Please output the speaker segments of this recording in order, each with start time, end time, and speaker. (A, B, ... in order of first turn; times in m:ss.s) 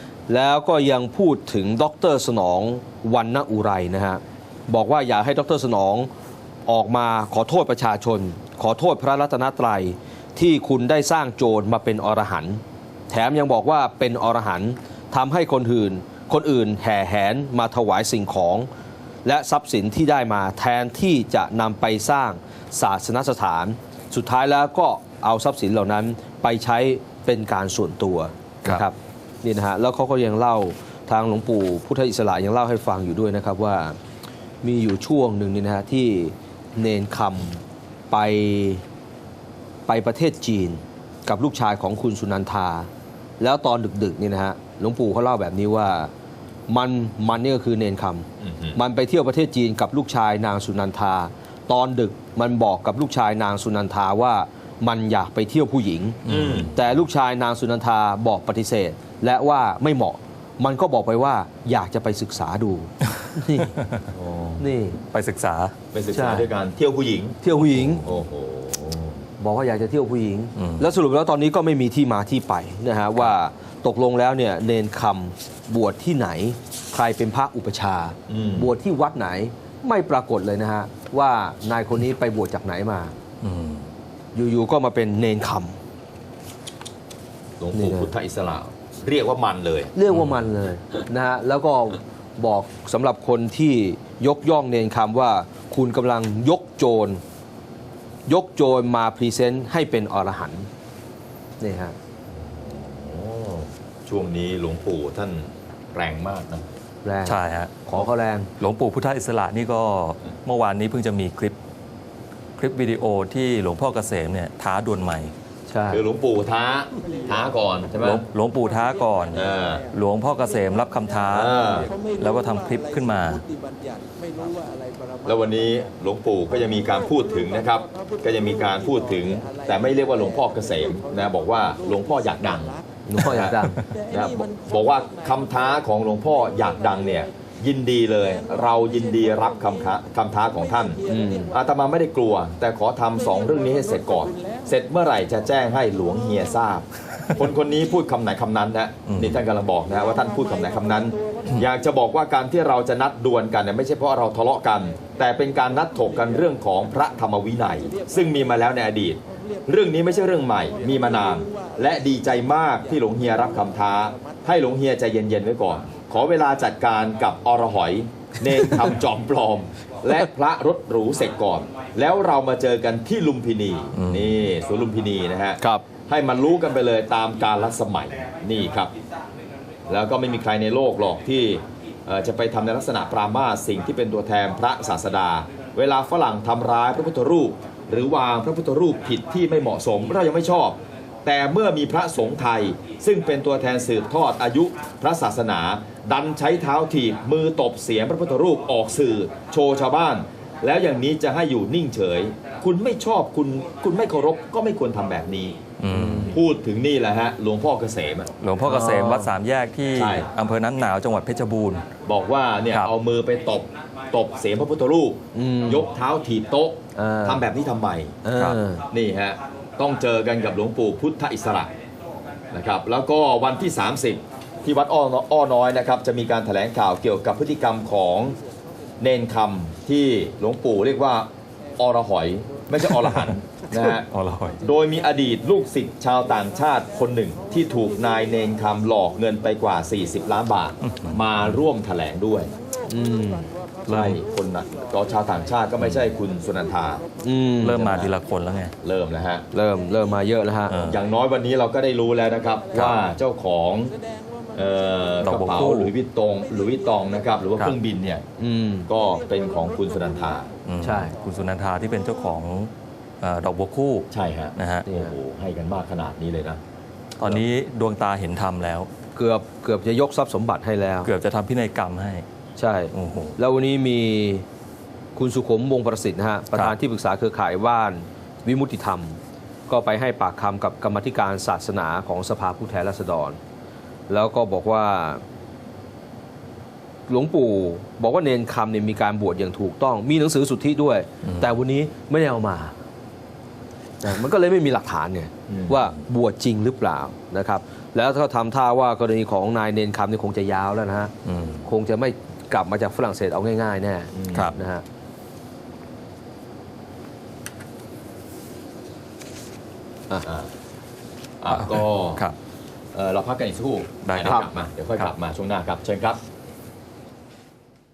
0:00.3-0:06.1 A
0:06.7-0:18.7 A
0:19.2-0:34.0 A
0:34.6-0:38.8 A
0:39.9-0:42.9 A
0:43.4-0:46.1 A
0:46.7-0:56.2 A
0:48.4-0:48.8 B
0:56.2-0:56.8 C
0:56.3-0:56.7 B
0:56.7-1:03.7 A
1:04.1-1:04.6 B
1:04.6-1:05.0 A
1:05.1-1:05.8 C
1:05.9-1:07.4 B
1:06.1-1:06.5 A
1:07.4-1:08.0 A
1:08.0-1:09.2 B
1:09.4-1:23.1 A
1:10.6-1:10.9 C
1:18.3-1:18.7 B
1:23.4-1:23.9 C
1:24.4-1:25.8 A
1:27.6-1:29.9 B
1:27.7-1:28.1 A
1:29.9-1:37.2 A
1:30.1-1:30.4 C
1:38.3-1:40.7 A
1:41.6-1:42.0 A
1:42.3-1:46.7 B
1:47.0-1:48.5 A
1:47.2-1:47.9 C
1:48.6-1:51.6 C
1:52.6-1:55.3 C
1:55.7-1:56.1 A
1:55.9-1:58.2 B
1:58.0-2:03.4 C
1:59.3-1:59.8 B
2:01.3-2:01.9 B
2:05.2-2:13.6 B
2:13.1-2:13.8 A
2:14.1-2:58.9 B
2:21.1-2:21.5 A
2:29.1-2:29.4 C
2:54.0-2:54.4 C
2:55.6-2:55.9 A
2:59.9-3:25.6 B
3:25.8-3:26.4 C
3:25.9-3:26.4 A
3:26.3-3:28.3 B
3:28.4-3:31.9 C
3:28.6-3:29.3 A
3:29.9-3:30.3 B
3:32.0-3:38.2 B
3:35.3-3:35.9 A
3:37.0-3:37.4 A
3:38.2-3:38.8 A
3:38.9-3:41.7 B
3:42.5-3:48.4 B
3:49.0-3:54.1 B
3:52.9-3:54.6 C
3:54.6-4:02.5 B
4:00.8-4:01.5 C
4:02.9-4:03.5 A
4:03.9-4:07.0 B
4:03.9-4:04.2 C
4:07.2-4:08.0 A
4:07.6-4:08.8 C
4:07.8-4:08.1 B
4:08.8-4:09.4 B
4:09.5-4:10.8 A
4:10.7-4:11.0 C
4:10.9-4:13.9 B
4:14.6-4:18.2 B
4:15.2-4:15.9 C
4:18.4-4:18.9 A
4:18.9-4:20.5 B
4:20.6-4:24.9 C
4:20.8-4:21.1 A
4:24.1-4:26.6 B
4:24.9-4:25.1 A
4:27.2-4:28.9 C
4:29.2-4:31.1 A
4:31.1-4:32.2 C
4:32.6-4:34.4 A
4:32.9-4:33.4 C
4:35.2-4:43.4 A
4:44.1-4:45.2 A
4:47.1-4:52.7 A
4:51.2-4:51.5 C
4:54.0-5:01.1 A
4:55.5-4:55.8 B
5:01.2-5:01.6 C
5:01.7-5:04.8 A
5:04.1-5:04.5 B
5:11.4-5:12.2 B
5:11.5-5:12.4 C
5:12.9-5:16.2 B
5:14.0-5:14.4 C